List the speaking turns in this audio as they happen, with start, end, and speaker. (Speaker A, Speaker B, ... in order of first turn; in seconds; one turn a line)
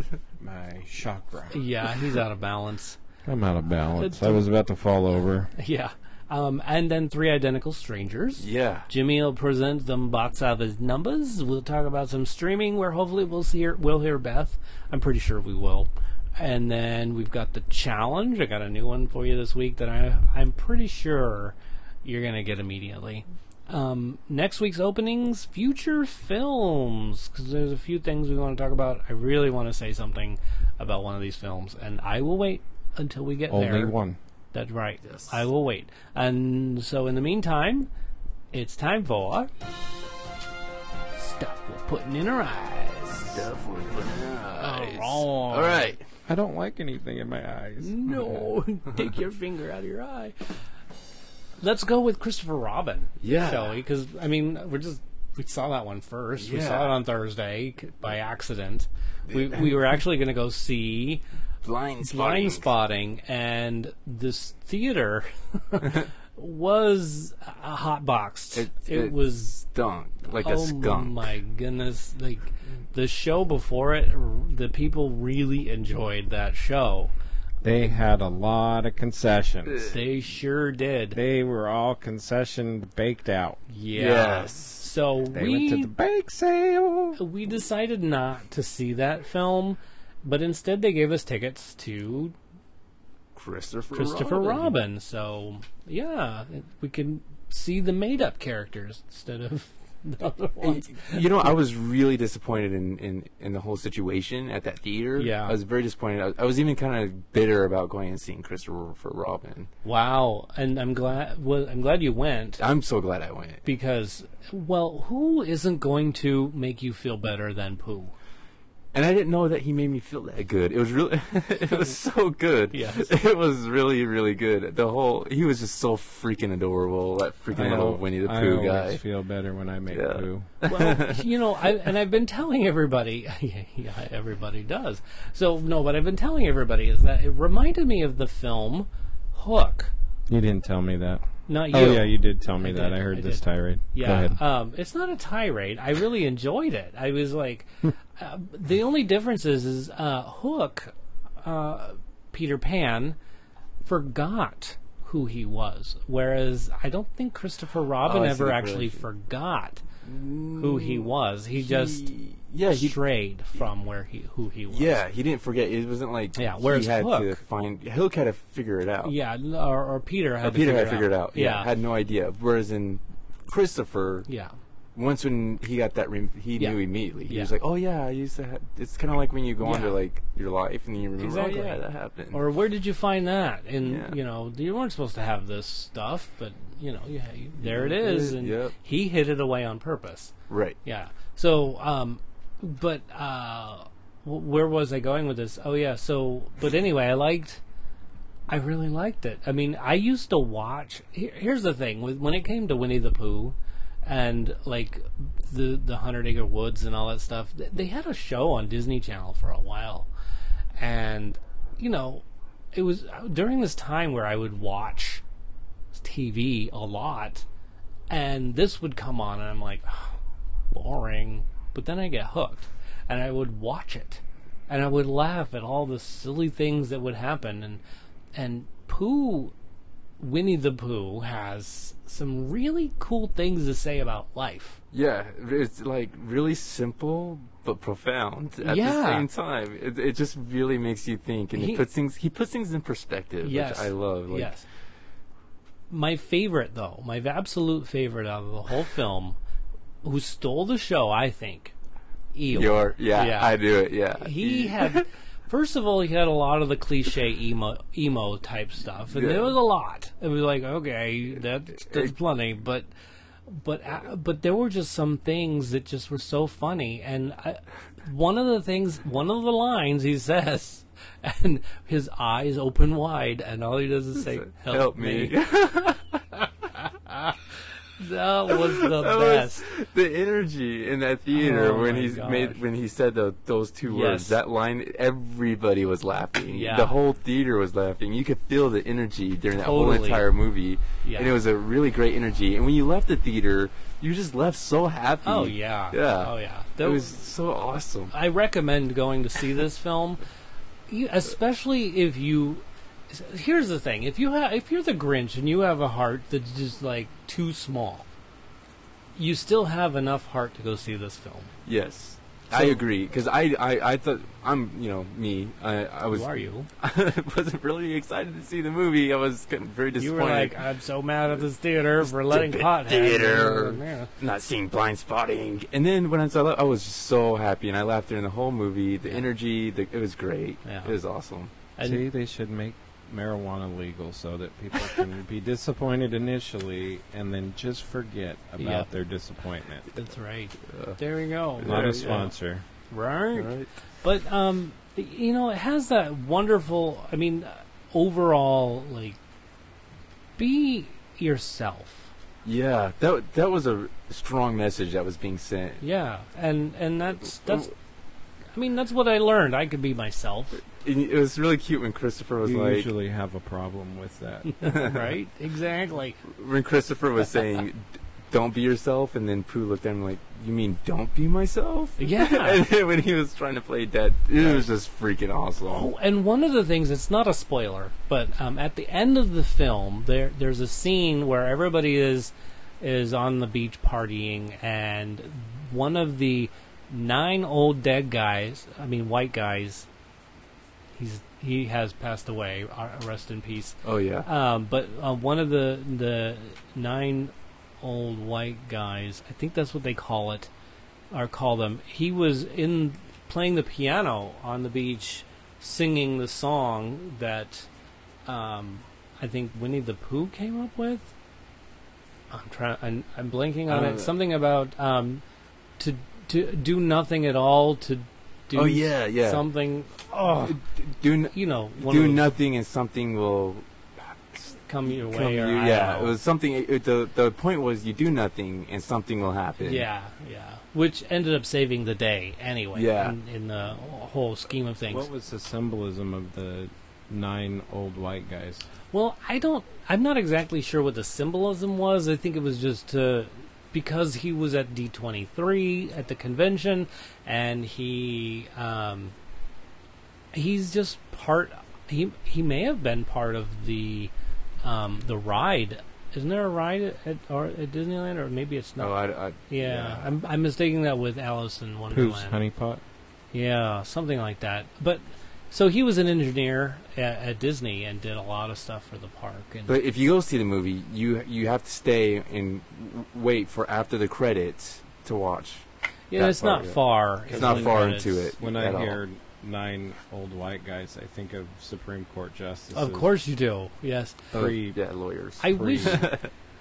Speaker A: 0.4-1.6
Speaker B: 1.5-3.0
Speaker A: 3.2-5.5
Speaker B: 4.0-4.4
Speaker B: 5.5-33.9
Speaker C: 8.4-8.9
Speaker A: 33.5-34.2
Speaker B: 34.5-37.9
Speaker C: 35.0-35.5
Speaker B: 38.5-39.5
Speaker B: 41.1-43.5
Speaker C: 43.3-46.0
Speaker B: 44.6-45.9
Speaker A: 46.2-48.4
Speaker B: 47.8-50.4
Speaker B: 51.6-61.2
Speaker C: 53.2-53.8
Speaker C: 56.4-56.9
Speaker C: 59.3-59.7
Speaker C: 61.6-62.7
Speaker B: 62.0-69.6
Speaker C: 68.5-71.3
Speaker B: 70.4-77.1
Speaker A: 77.6-79.8
Speaker C: 79.7-80.0
Speaker B: 79.8-81.2
Speaker A: 81.1-83.6
Speaker B: 83.7-85.9
Speaker C: 83.9-84.8
Speaker A: 85.3-87.2
Speaker B: 87.2-92.3
Speaker C: 93.3-94.7
Speaker B: 93.9-101.2
Speaker C: 100.6-109.7
Speaker B: 105.2-105.6
Speaker B: 109.8-112.6
Speaker C: 112.6-113.6
Speaker B: 113.6-118.1
Speaker C: 118.9-129.0
Speaker B: 122.7-123.1
Speaker A: 127.5-130.5
Speaker C: 129.9-131.3
Speaker B: 130.6-139.9
Speaker A: 140.3-144.4
Speaker B: 141.5-153.2
Speaker B: 153.8-159.8
Speaker C: 158.0-159.0
Speaker C: 160.0-163.0
Speaker B: 160.6-162.1
Speaker B: 162.7-165.0
Speaker C: 164.7-169.1
Speaker B: 166.3-167.4
Speaker B: 169.0-171.7
Speaker C: 170.4-174.3
Speaker B: 174.3-174.5
Speaker C: 174.9-182.4
Speaker B: 176.6-177.5
Speaker B: 179.6-180.0
Speaker B: 181.2-181.8
Speaker B: 182.3-190.3
Speaker C: 183.8-184.2
Speaker C: 187.6-188.7
Speaker C: 190.5-190.8
Speaker B: 190.8-197.6
Speaker B: 198.5-210.1
Speaker B: 210.8-215.2
Speaker B: 215.9-217.4
Speaker B: 218.1-220.2
Speaker B: 220.7-227.8
Speaker B: 228.3-229.5
Speaker B: 230.2-234.8
Speaker C: 234.9-244.5
Speaker B: 238.6-239.3
Speaker B: 241.5-241.8
Speaker B: 243.4-244.6
Speaker B: 245.9-249.4
Speaker B: 250.0-251.7
Speaker B: 252.3-253.6
Speaker C: 252.5-255.1
Speaker B: 254.2-262.9
Speaker C: 259.1-259.6
Speaker C: 261.8-262.1
Speaker B: 263.5-275.4
Speaker C: 274.3-276.2
Speaker B: 276.7-277.4
Speaker B: 278.0-279.7
Speaker C: 278.5-298.1
Speaker B: 281.3-282.6
Speaker B: 283.8-284.4
Speaker B: 286.5-286.9
Speaker B: 289.6-290.2
Speaker B: 291.0-291.3
Speaker B: 295.2-297.1
Speaker B: 298.1-300.2
Speaker B: 300.9-308.1
Speaker B: 309.1-311.5
Speaker C: 311.6-320.6
Speaker B: 312.5-312.8
Speaker B: 316.1-316.7
Speaker B: 320.0-324.1
Speaker C: 322.0-331.5
Speaker B: 330.6-330.9
Speaker B: 331.8-332.0
Speaker A: 331.8-339.9
Speaker B: 338.6-338.9
Speaker B: 339.9-342.3
Speaker C: 340.7-341.0
Speaker C: 341.6-342.2
Speaker A: 341.6-342.6
Speaker B: 342.9-343.5
Speaker C: 343.3-343.7
Speaker B: 344.0-349.2
Speaker B: 350.4-352.1
Speaker C: 352.4-355.8
Speaker B: 355.8-357.7
Speaker B: 358.5-360.6
Speaker C: 360.8-362.9
Speaker A: 362.4-364.6
Speaker B: 364.5-366.2
Speaker C: 364.6-365.1
Speaker C: 366.3-375.9
Speaker B: 372.0-372.6
Speaker B: 374.4-374.7
Speaker B: 375.7-389.9
Speaker B: 390.9-400.5
Speaker C: 393.8-394.3
Speaker B: 401.1-407.7
Speaker B: 408.2-411.1
Speaker B: 412.3-415.2
Speaker C: 413.7-414.1
Speaker B: 415.8-420.6
Speaker C: 418.5-419.4
Speaker C: 420.1-429.9
Speaker B: 421.3-422.3
Speaker B: 424.7-426.1
Speaker B: 429.6-435.1
Speaker C: 432.7-433.2
Speaker A: 434.9-438.7
Speaker B: 438.9-449.1
Speaker B: 450.3-454.1
Speaker B: 454.6-458.9
Speaker C: 458.8-460.1
Speaker B: 459.5-462.4
Speaker A: 461.9-462.8
Speaker B: 463.3-469.8
Speaker C: 469.7-479.0
Speaker B: 476.1-478.3
Speaker A: 477.3-483.1
Speaker B: 482.7-484.2
Speaker A: 484.3-484.8
Speaker C: 484.3-486.3
Speaker B: 485.4-486.1
Speaker A: 485.4-486.1